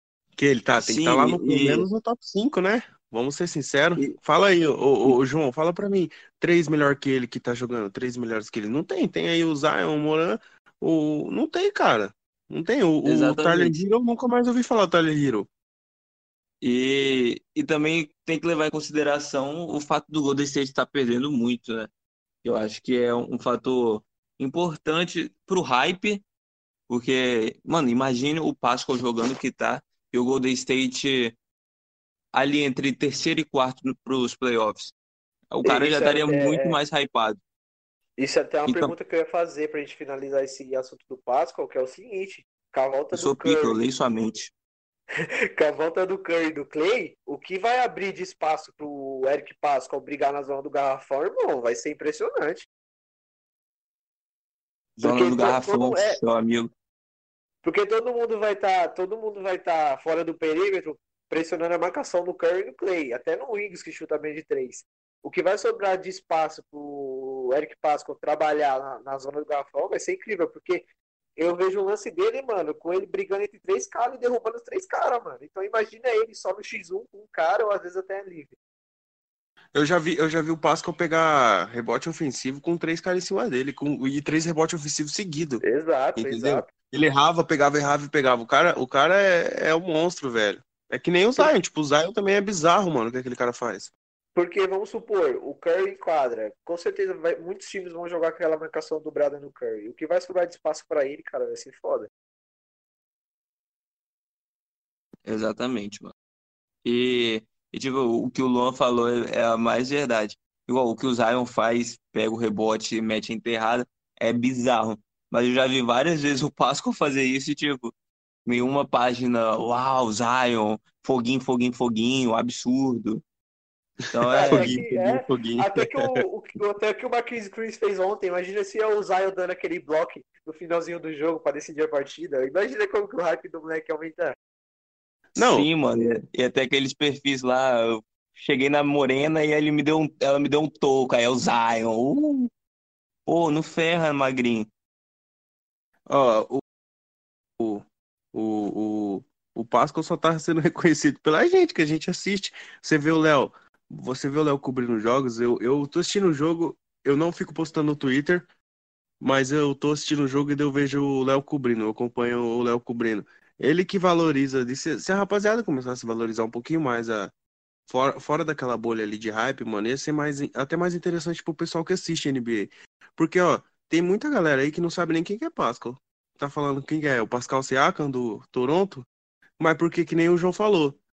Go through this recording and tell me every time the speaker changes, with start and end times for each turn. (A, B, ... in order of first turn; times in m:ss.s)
0:00.4-0:15.5 A
0:00.7-0:01.9 B
0:13.0-0:13.8 B
0:16.6-0:21.9 B
0:22.4-0:26.2 B
0:26.9-0:31.4 B
0:32.3-0:34.9 B
0:35.5-0:37.4 B
0:35.6-0:36.8 C
0:38.2-0:43.8 C
0:38.7-0:38.9 B
0:43.1-0:44.5 B
0:45.6-0:52.7 C
0:55.0-0:56.7 B
0:55.0-0:56.2 C
0:57.6-1:10.8 C
1:11.4-1:18.6 C
1:19.7-1:25.6 A
1:25.6-1:26.7 C
1:26.2-1:33.9 A
1:34.4-1:42.1 C
1:45.2-1:46.1 B
1:46.8-1:57.9 B
1:58.5-2:03.2 B
2:04.1-2:05.8 B
2:04.3-2:14.4 C
2:04.4-2:04.8 A
2:15.4-2:15.7 A
2:15.4-2:22.5 B
2:23.3-2:24.7 B
2:26.1-2:26.6 A
2:27.6-2:38.5 A
2:39.2-2:47.3 A
2:47.9-2:59.1 A
2:59.6-3:01.0 A